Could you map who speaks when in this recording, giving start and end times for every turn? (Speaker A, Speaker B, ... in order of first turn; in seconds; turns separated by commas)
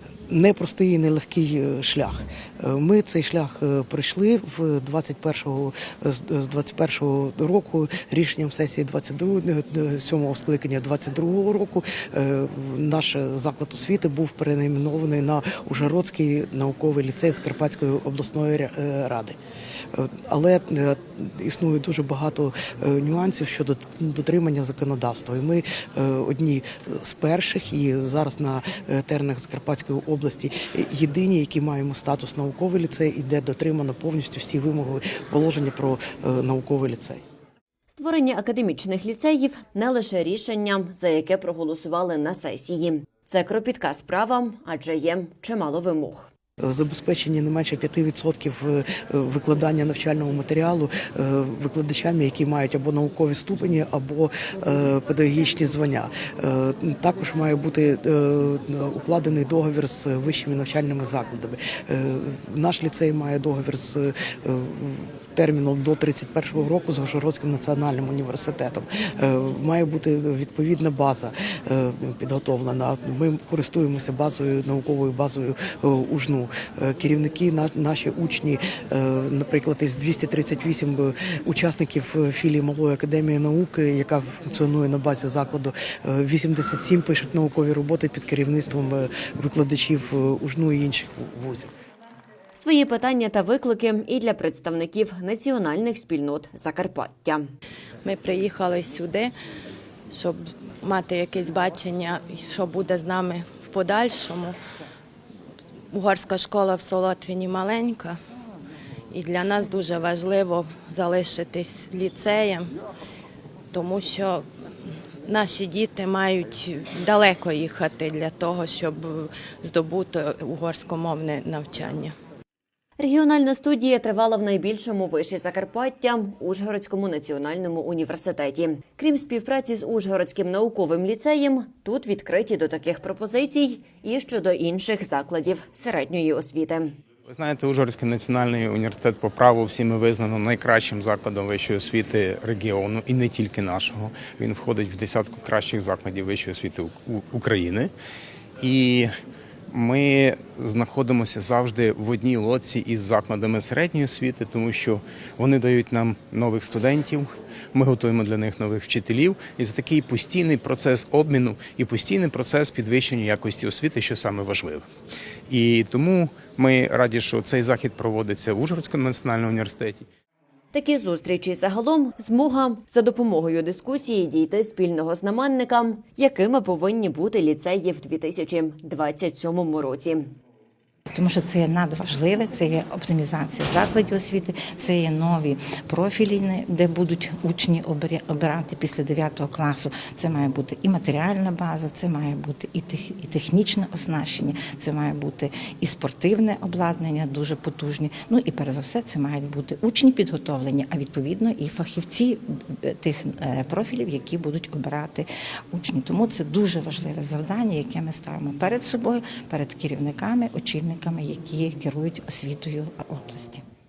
Speaker A: 0.3-19.4, Speaker A: 19.9-37.2, Speaker B: 37.9-46.3, Speaker A: 46.6-91.7, Speaker B: 92.5-97.5, Speaker C: 98.0-99.3, Speaker C: 100.1-104.6, Speaker C: 105.9-108.2, Speaker C: 109.1-112.7, Speaker C: 113.7-114.5, Speaker C: 115.3-122.2, Speaker B: 123.0-136.9, Speaker D: 137.3-147.9, Speaker D: 148.6-149.1, Speaker D: 149.7-164.8, Speaker D: 165.5-170.1, Speaker B: 170.7-180.2, Speaker E: 181.1-213.6